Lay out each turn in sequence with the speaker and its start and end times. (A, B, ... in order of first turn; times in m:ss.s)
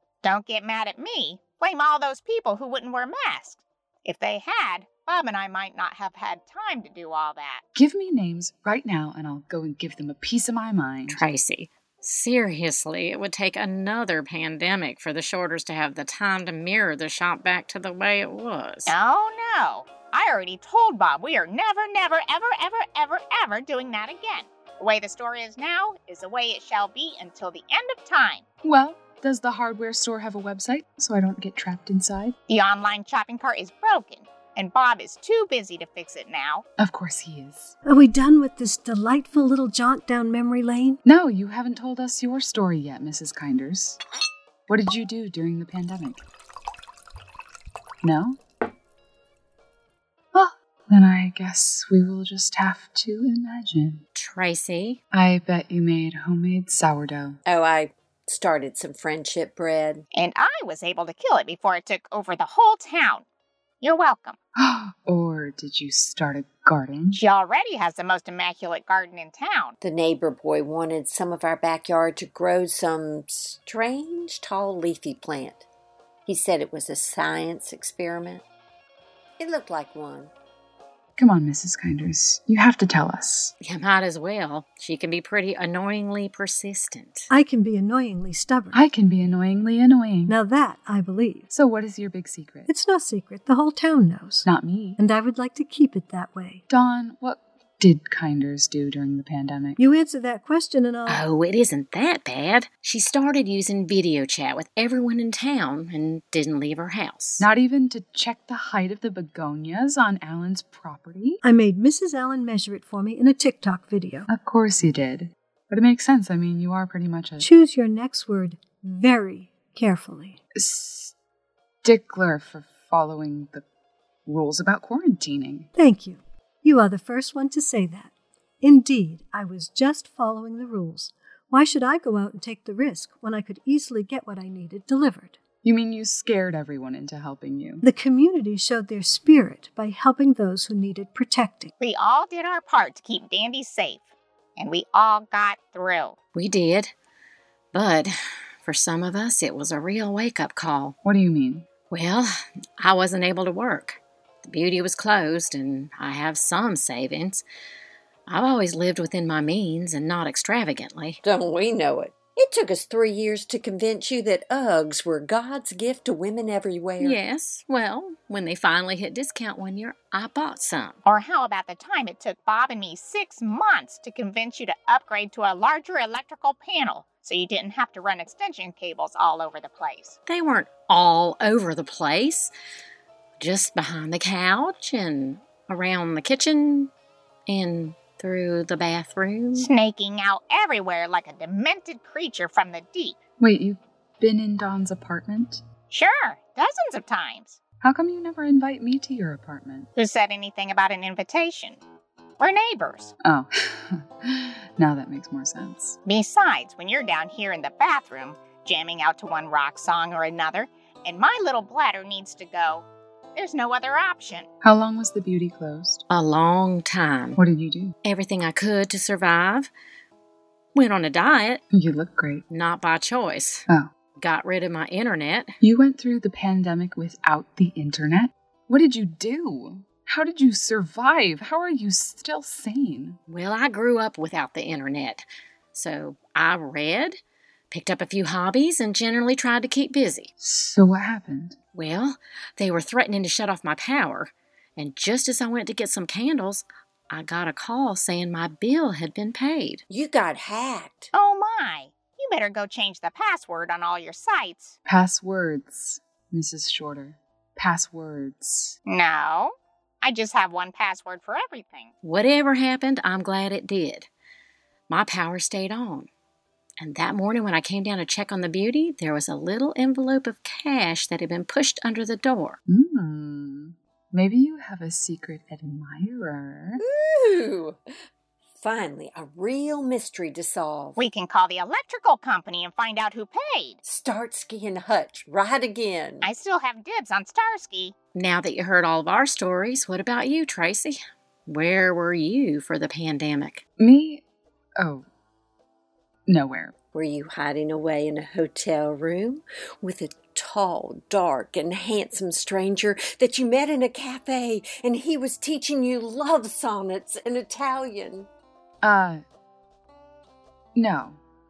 0:00.2-0:07.6 A
0:07.8-0:11.2 B
0:11.1-0:19.0 C
0:18.9-0:28.4 A
0:28.6-0:32.4 B
0:32.5-0:36.6 A
0:36.8-0:37.8 B
0:37.8-0:41.0 D
0:41.0-0:44.0 B
0:44.7-0:46.2 B
0:48.0-0:48.4 B
0:50.3-0:54.0 B
0:54.1-0:55.0 C
0:55.1-0:57.4 B
0:57.4-1:00.0 E
1:00.1-1:03.2 A
1:03.8-1:04.4 A
1:04.6-1:07.2 B
1:07.1-1:09.8 A
1:09.8-1:15.6 E
1:16.2-1:18.4 E
1:19.4-1:20.3 E
1:21.2-1:23.5 B
1:23.6-1:27.3 C
1:27.3-1:28.8 D
1:28.7-1:30.4 B
1:30.3-1:31.5 D
1:31.5-1:32.7 B
1:32.7-1:36.6 D
1:34.4-1:35.0 B
1:36.7-1:39.8 B
1:39.8-1:41.2 D
1:41.1-1:47.5 C
1:47.4-1:51.4 B
1:51.4-1:54.3 D
1:54.3-1:57.4 B
1:57.4-2:00.4 D
2:00.6-2:01.1 B
2:01.8-2:03.6 B
2:04.3-2:05.7 B
2:05.8-2:15.4 D
2:15.6-2:17.8 B
2:17.8-2:21.7 D
2:21.8-2:24.0 A
2:24.6-2:26.2 A
2:26.4-2:26.9 C
2:27.7-2:31.0 C
2:31.0-2:31.7 B
2:31.9-2:37.4 C
2:38.3-2:41.2 C
2:41.2-2:47.2 E
2:47.0-2:51.0 C
2:51.0-3:00.2 A
3:00.3-3:02.5 C
3:03.4-3:06.9 C
3:07.5-3:09.7 C
3:09.6-3:13.2 A
3:13.4-3:15.6 B
3:15.9-3:17.6 A
3:17.8-3:19.9 B
3:20.0-3:21.8 A
3:22.4-3:23.1 A
3:23.2-3:26.0 B
3:26.1-3:34.5 A
3:34.6-3:36.1 B
3:36.1-3:37.4 C
3:37.4-3:38.0 B
3:38.0-3:39.7 C
3:40.7-3:41.6 C
3:41.7-3:42.4 B
3:42.5-3:43.6 C
3:44.2-3:45.6 C
3:45.6-3:53.2 B
3:53.3-3:57.2 C
3:57.7-4:00.3 C
4:00.4-4:01.6 B
4:01.7-4:09.8 C
4:09.9-4:11.1 E
4:11.1-4:14.8 A
4:14.9-4:18.8 B
4:18.9-4:21.9 A
4:22.0-4:24.1 C
4:24.9-4:26.1 C
4:26.8-4:32.6 C
4:32.7-4:36.8 B
4:36.8-4:37.8 E
4:38.6-4:41.0 E
4:41.0-4:43.8 A
4:43.8-4:46.3 E
4:46.2-4:47.9 A
4:48.1-4:53.6 C
4:53.8-4:54.2 B
4:54.8-4:55.0 B
4:56.3-4:56.7 B
4:56.9-5:08.3 E
5:08.8-5:09.2 B
5:10.8-5:11.2 B